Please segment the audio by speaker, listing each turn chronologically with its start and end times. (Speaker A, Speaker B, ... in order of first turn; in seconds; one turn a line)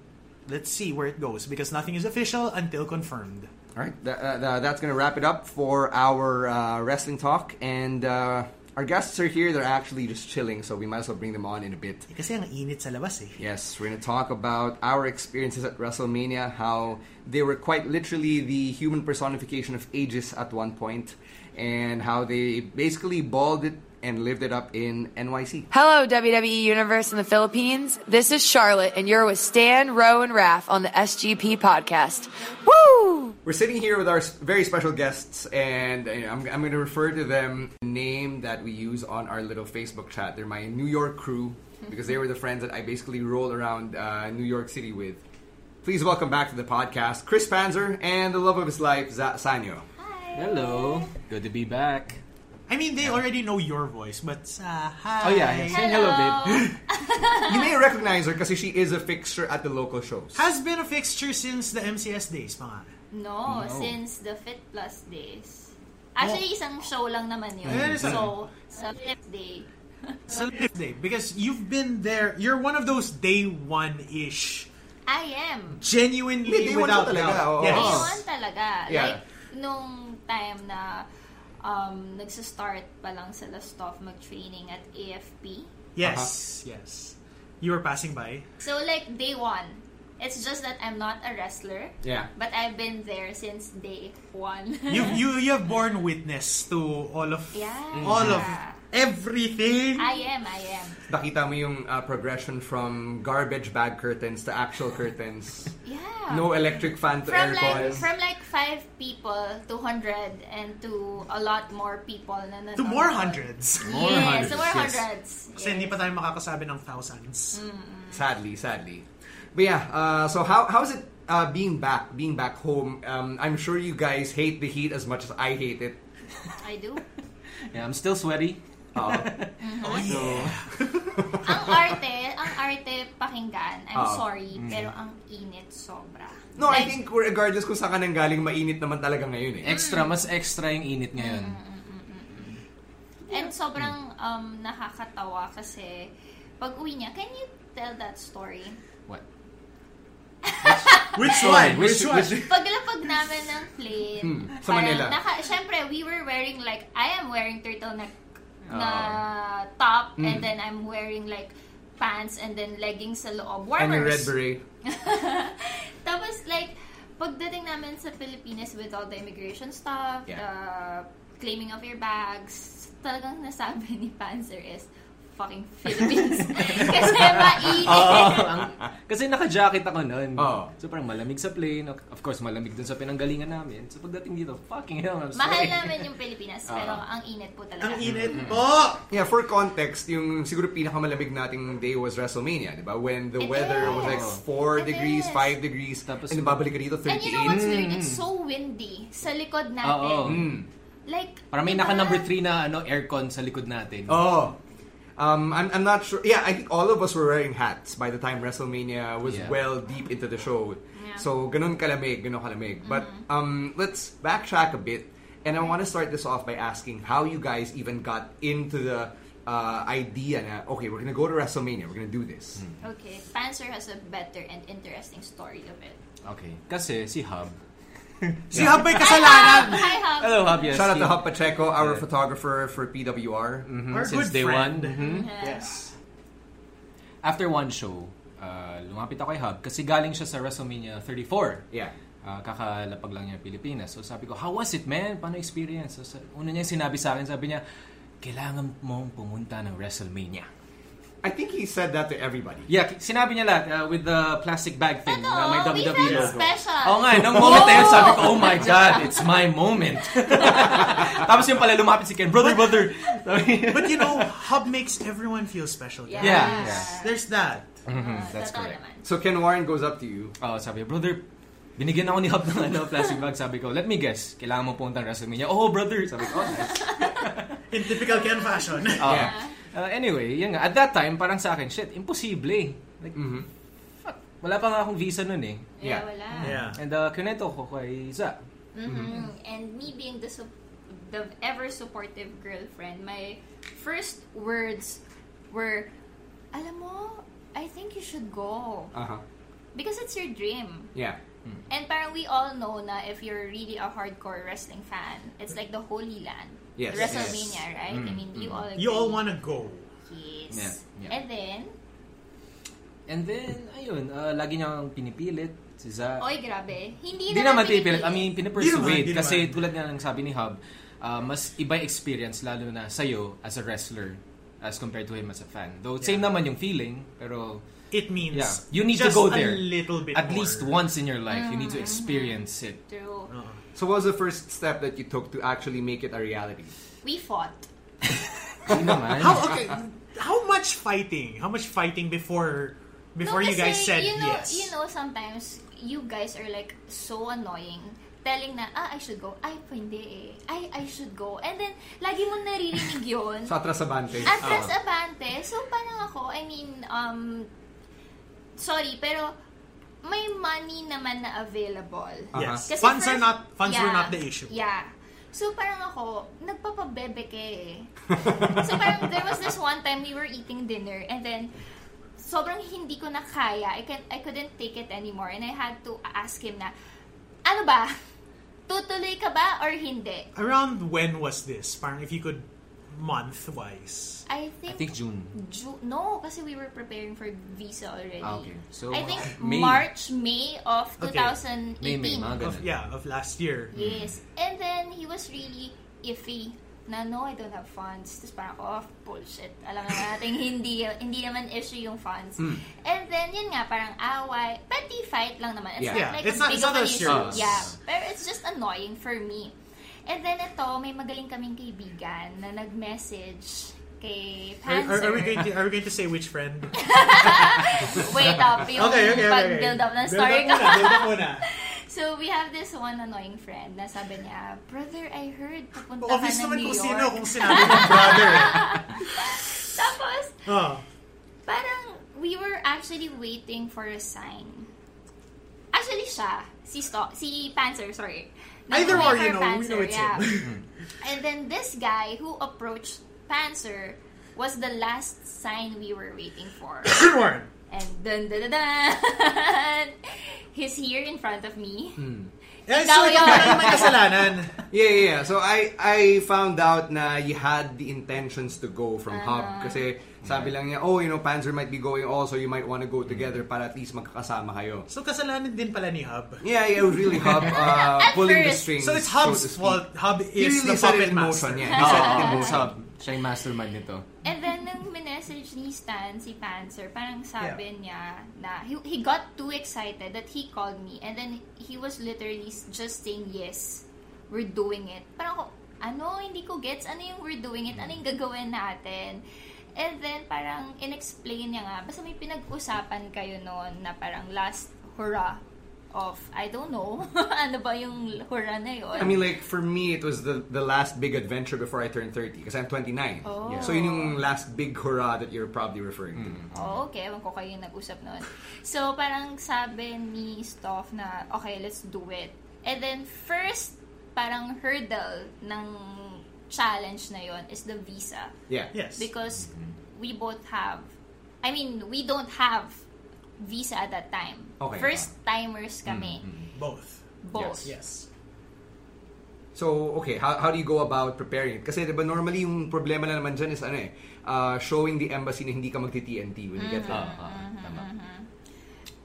Speaker A: 0.5-3.5
Speaker B: 3.7-12.1
Speaker A: 12.1-13.4
Speaker B: 13.4-25.7
Speaker C: 25.7-33.4
Speaker B: 33.4-45.2
Speaker B: 45.8-49.9
Speaker D: 50.0-51.1
Speaker E: 50.3-52.2
Speaker A: 52.7-55.9
Speaker E: 55.2-56.7
Speaker D: 55.7-57.7
Speaker B: 57.4-60.4
Speaker A: 60.3-62.9
Speaker D: 63.1-70.2
Speaker E: 63.5-64.0
Speaker A: 67.7-68.3
Speaker B: 67.7-68.2
Speaker A: 70.3-74.7
Speaker D: 75.1-75.8
Speaker A: 75.8-78.1
Speaker B: 76.4-78.2
Speaker D: 77.7-81.1
Speaker B: 78.9-79.2
Speaker D: 81.6-85.7
Speaker A: 86.0-88.5
Speaker B: 86.0-86.3
Speaker D: 88.6-95.2
Speaker B: 92.0-92.3
Speaker A: 94.9-100.1
Speaker D: 97.5-98.8
Speaker E: 98.0-98.4
Speaker D: 100.0-101.0
Speaker B: 101.1-105.7
Speaker D: 105.8-106.7
Speaker B: 106.3-108.1
Speaker D: 107.2-116.0
Speaker A: 112.8-114.5
Speaker E: 113.8-115.0
Speaker B: 114.1-114.8
Speaker A: 115.6-117.6
Speaker D: 117.5-118.2
Speaker B: 118.1-126.0
Speaker D: 126.6-127.0
Speaker E: 127.7-130.6
Speaker B: 128.9-129.4
Speaker D: 129.6-130.4
Speaker A: 129.8-131.0
Speaker B: 131.2-131.9
Speaker D: 131.4-137.0
Speaker B: 133.9-134.3
Speaker E: 134.5-134.9
Speaker B: 136.6-139.8
Speaker E: 139.6-141.6
Speaker D: 139.7-140.2
Speaker D: 141.2-142.6
Speaker D: 143.3-148.8
Speaker E: 143.3-143.9
Speaker D: 150.4-151.2
Speaker A: 151.0-152.5
Speaker B: 151.2-152.4
Speaker E: 151.3-152.3
Speaker D: 152.3-158.2
Speaker B: 154.2-155.2
Speaker E: 158.7-159.2
Speaker D: 158.7-178.5
Speaker B: 160.2-160.5
Speaker B: 163.8-164.6
Speaker E: 176.0-186.1
Speaker B: 177.9-178.5
Speaker B: 180.4-180.7
Speaker D: 185.3-188.5
Speaker E: 186.7-187.0
Speaker A: 187.8-189.0
Speaker E: 188.1-188.6
Speaker B: 189.1-197.8
Speaker D: 193.4-195.6
Speaker E: 193.8-194.4
Speaker E: 196.0-196.7
Speaker D: 197.1-200.5
Speaker E: 197.4-198.2
Speaker E: 199.8-200.6
Speaker B: 200.2-200.7
Speaker D: 201.1-202.3
Speaker E: 201.5-204.4
Speaker B: 204.1-204.6
Speaker B: 205.2-222.6
Speaker E: 209.2-209.6
Speaker D: 210.9-211.3
Speaker D: 212.8-213.2
Speaker D: 222.8-226.0
Speaker E: 226.2-227.6
Speaker A: 228.5-229.8
Speaker B: 228.5-229.0
Speaker E: 228.5-228.8
Speaker D: 228.9-230.8
Speaker E: 229.5-231.2
Speaker B: 230.7-233.7
Speaker E: 231.8-232.0
Speaker E: 233.7-235.3
Speaker A: 233.9-235.9
Speaker D: 235.0-235.7
Speaker E: 237.2-241.6
Speaker E: 242.2-247.6
Speaker E: 248.2-250.5
Speaker B: 251.2-252.7
Speaker E: 252.7-264.3
Speaker D: 255.0-259.4
Speaker A: 256.0-256.4
Speaker D: 260.3-260.7
Speaker A: 262.3-262.9
Speaker A: 263.7-267.7
Speaker D: 266.1-267.2
Speaker E: 266.2-266.9
Speaker E: 267.9-268.6
Speaker D: 267.9-269.1
Speaker B: 268.3-270.3
Speaker E: 270.4-271.2
Speaker E: 271.8-277.5
Speaker B: 276.2-276.6
Speaker D: 276.7-277.1
Speaker A: 277.7-279.1
Speaker D: 278.4-279.5
Speaker E: 279.0-283.3
Speaker B: 279.0-279.3
Speaker B: 283.1-283.5
Speaker E: 284.0-285.7
Speaker D: 285.8-286.6
Speaker E: 286.3-288.4
Speaker A: 286.4-286.8
Speaker D: 288.7-295.9
Speaker B: 288.9-289.2
Speaker D: 296.5-298.9
Speaker B: 298.9-299.2
Speaker D: 299.7-300.9
Speaker B: 300.9-301.2
Speaker D: 301.7-309.2
Speaker B: 306.8-307.6
Speaker E: 306.9-308.6
Speaker A: 308.8-309.9
Speaker D: 310.1-311.7
Speaker E: 310.5-311.1
Speaker E: 313.1-316.2
Speaker D: 316.2-318.4
Speaker E: 317.3-327.6
Speaker A: 318.5-319.6
Speaker A: 326.0-326.3
Speaker A: 327.9-330.7
Speaker E: 328.3-332.8
Speaker D: 331.3-333.3
Speaker A: 333.3-333.6
Speaker B: 333.7-336.7
Speaker D: 337.0-337.7
Speaker E: 338.7-339.5
Speaker A: 339.1-344.7
Speaker D: 343.2-353.6
Speaker B: 353.5-354.7
Speaker D: 354.2-357.5
Speaker D: 358.6-359.4
Speaker D: 360.0-371.5
Speaker B: 362.3-362.6
Speaker A: 362.3-364.5
Speaker D: 372.2-376.7
Speaker D: 377.4-378.0
Speaker D: 378.7-380.3
Speaker A: 380.3-384.2
Speaker D: 384.3-392.4
Speaker E: 384.7-385.4
Speaker E: 388.2-389.8
Speaker A: 391.0-391.4
Speaker E: 391.8-392.7
Speaker A: 392.4-393.7
Speaker D: 393.7-409.5
Speaker E: 393.8-394.1
Speaker B: 402.4-402.6
Speaker B: 405.8-406.1
Speaker A: 405.9-407.4
Speaker E: 407.1-407.7
Speaker B: 407.1-407.4
Speaker D: 410.1-415.5
Speaker A: 414.6-417.6
Speaker D: 416.7-430.4
Speaker A: 418.7-421.4
Speaker A: 426.0-428.8
Speaker A: 430.4-430.8
Speaker D: 431.4-434.7
Speaker D: 435.7-440.4
Speaker A: 438.7-440.6
Speaker E: 438.9-439.2
Speaker D: 441.0-447.1
Speaker A: 446.8-447.5
Speaker D: 447.7-452.1
Speaker B: 452.0-452.3
Speaker A: 452.7-454.6
Speaker D: 452.7-454.0
Speaker B: 454.7-464.9
Speaker D: 459.1-459.9
Speaker E: 460.2-460.5
Speaker A: 464.9-466.4
Speaker B: 466.4-469.8
Speaker A: 467.1-467.5
Speaker D: 467.4-468.8
Speaker A: 468.8-472.0
Speaker B: 470.4-472.7
Speaker E: 471.7-474.1
Speaker D: 471.8-472.5
Speaker D: 474.2-489.2
Speaker D: 489.8-495.4
Speaker D: 495.9-499.3
Speaker B: 498.9-506.4
Speaker D: 503.2-504.2
Speaker E: 503.4-503.7
Speaker E: 506.1-506.8
Speaker D: 506.5-518.4
Speaker A: 518.7-519.1
Speaker D: 519.0-520.9
Speaker E: 519.4-519.7
Speaker D: 521.4-522.8
Speaker D: 523.4-526.2
Speaker B: 524.6-525.0
Speaker E: 525.9-526.5
Speaker A: 526.5-527.0
Speaker D: 527.2-527.7
Speaker A: 527.6-528.1
Speaker B: 529.5-537.1
Speaker D: 536.6-538.3
Speaker E: 536.9-537.8